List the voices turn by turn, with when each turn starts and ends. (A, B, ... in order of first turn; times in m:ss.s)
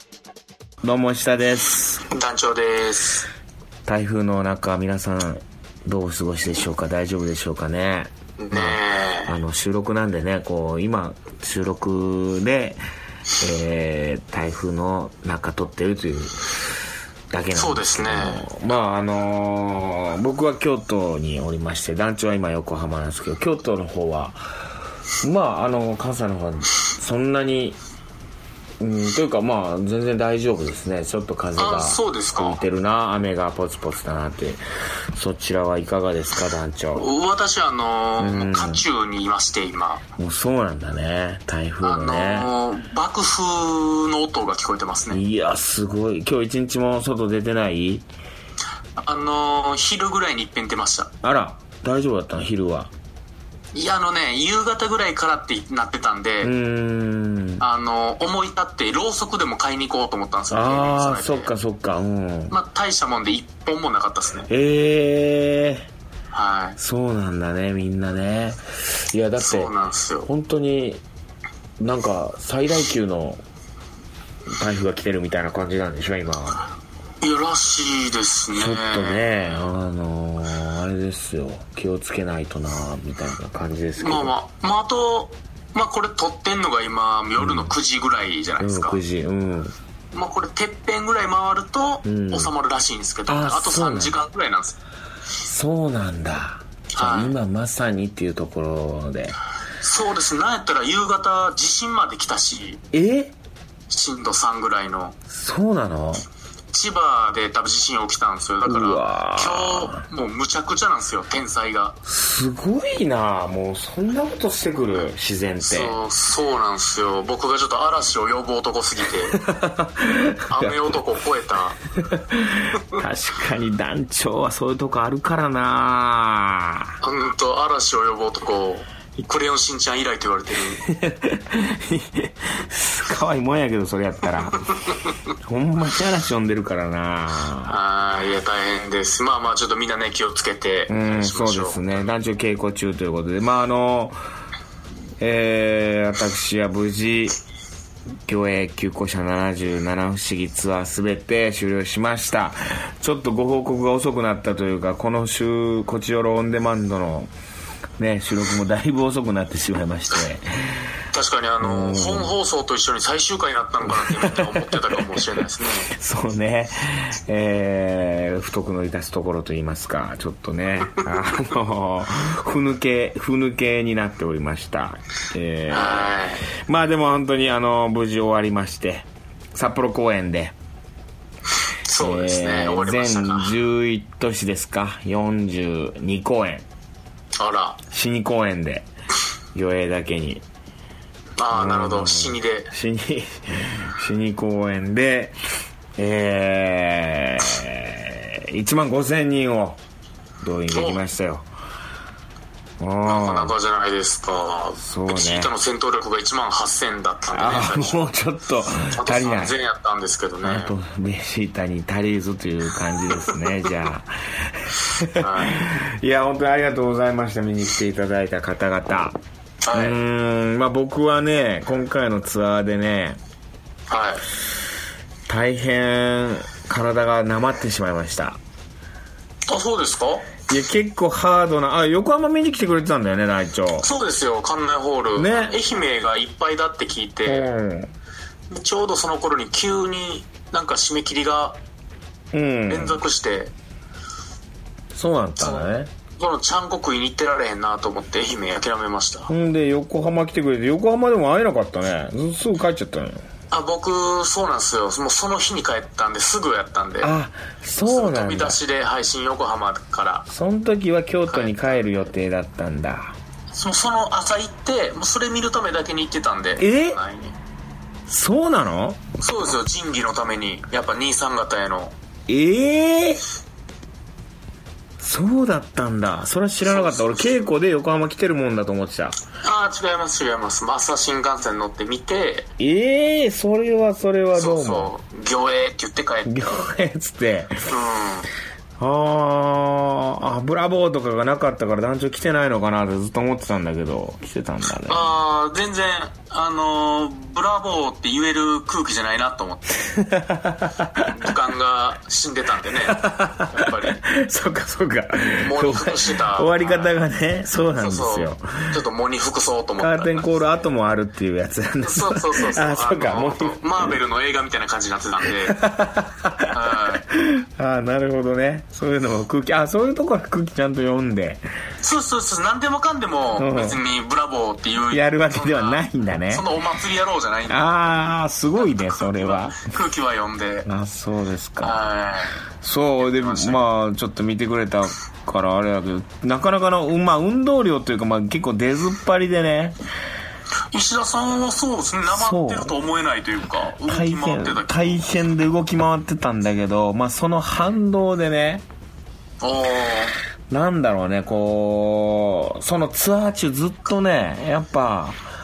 0:00.8-0:02.0 A
0:02.0-0:03.3 B
0:03.8-0:12.8 A
0:08.4-0:09.3 B
0:13.4-0:16.5 A
0:17.3-0:24.4 A
0:17.5-0:18.4 B
0:25.2-0:27.8 A
0:28.8-0:34.6 A
0:31.6-0:32.6 B
0:35.1-0:37.1 A
0:36.9-0:40.0 B
0:38.2-0:38.8 A
0:40.2-0:42.5 A
0:41.8-0:45.2 B
0:45.1-0:48.0 A
0:49.0-0:51.1 B
0:51.2-0:52.9 A
0:53.7-0:56.5 B
0:56.4-0:57.6 A
0:57.6-1:01.5 B
1:00.5-1:02.5 A
1:02.5-1:04.5 B
1:04.5-1:05.9 A
1:06.3-1:06.8 B
1:06.8-1:09.7 A
1:09.4-1:10.3 B
1:10.2-1:11.0 A
1:11.8-1:13.4 A
1:14.5-1:16.7 A
1:17.2-1:19.6 B
1:18.5-1:24.3 A
1:24.0-1:29.0 B
1:27.4-1:27.7 A
1:28.6-1:29.7 A
1:30.1-1:34.8 B
1:32.0-1:32.5 A
1:33.3-1:34.2 A
1:35.4-1:39.4 A
1:36.9-1:37.4 B
1:39.8-1:42.8 B
1:42.9-1:43.3 A
1:43.9-1:45.2 B
1:45.3-1:46.2 A
1:46.7-1:52.0 B
1:48.6-1:50.0 A
1:52.0-1:56.0 A
1:55.6-1:59.4 B
1:59.3-2:00.9 A
2:00.5-2:01.8 B
2:02.0-2:07.0 A
2:07.0-2:10.8 B
2:10.8-2:14.8 A
2:15.4-2:17.8 A
2:17.7-2:21.8 B
2:20.9-2:24.2 A
2:25.2-2:27.4 A
2:28.2-2:37.3 A
2:38.0-2:40.9 A
2:41.1-2:45.9 B
2:41.6-2:42.3 A
2:43.9-3:00.5 A
2:55.7-2:56.4 B
3:01.8-3:03.5 B
3:02.0-3:06.6 A
3:07.4-3:07.8 B
3:07.9-3:08.8 A
3:09.5-3:10.4 A
3:11.4-3:12.7 B
3:11.5-3:15.4 A
3:16.0-3:19.8 A
3:20.4-3:21.4 A
3:20.7-3:21.0 B
3:22.8-3:23.5 A
3:23.0-3:28.1 B
3:24.8-3:25.5 A
3:27.3-3:29.5 A
3:28.9-3:30.7 B
3:30.4-3:39.2 A
3:35.1-3:35.6 B
3:39.6-3:40.0 B
3:39.7-3:43.2 A
3:43.9-3:44.2 B
3:45.3-3:48.4 A
3:49.4-3:50.3 B
3:50.5-3:53.9 A
3:53.8-3:57.5 B
3:55.2-3:55.6 A
3:57.2-3:57.9 A
3:58.5-4:01.6 B
4:02.3-4:03.0 A
4:02.7-4:03.5 B
4:04.9-4:05.9 A
4:05.4-4:09.3 B
4:09.3-4:13.2 A
4:13.5-4:17.1 B
4:17.0-4:18.6 A
4:17.8-4:20.2 B
4:20.3-4:23.1 A
4:21.3-4:21.6 B
4:23.5-4:27.4 B
4:26.6-4:27.0 A
4:28.1-4:29.0 A
4:29.2-4:31.9 B
4:32.3-4:33.2 A
4:35.0-4:39.2 A
4:36.6-4:37.4 B
4:39.4-4:42.5 B
4:42.6-4:44.9 A
4:44.3-4:46.6 B
4:46.2-4:47.7 A
4:47.7-4:48.3 B
4:48.8-4:55.1 A
4:54.9-4:59.9 B
4:59.9-5:01.1 A
5:01.0-5:04.0 B
5:02.8-5:08.7 A
5:05.4-5:06.9 B
5:07.8-5:10.3 B
5:09.8-5:14.0 A
5:11.8-5:15.6 B
5:15.5-5:21.4 A
5:16.5-5:17.0 B
5:21.8-5:27.7 B
5:23.4-5:23.8 A
5:24.9-5:26.5 A
5:27.5-5:29.7 A
5:28.6-5:30.7 B
5:30.6-5:31.8 A
5:31.6-5:32.4 B
5:32.6-5:39.8 A
5:33.0-5:33.6 B
5:40.7-5:45.0 B
5:42.1-5:42.7 A
5:43.8-5:48.6 A
5:49.4-5:50.2 B
5:50.5-5:55.2 A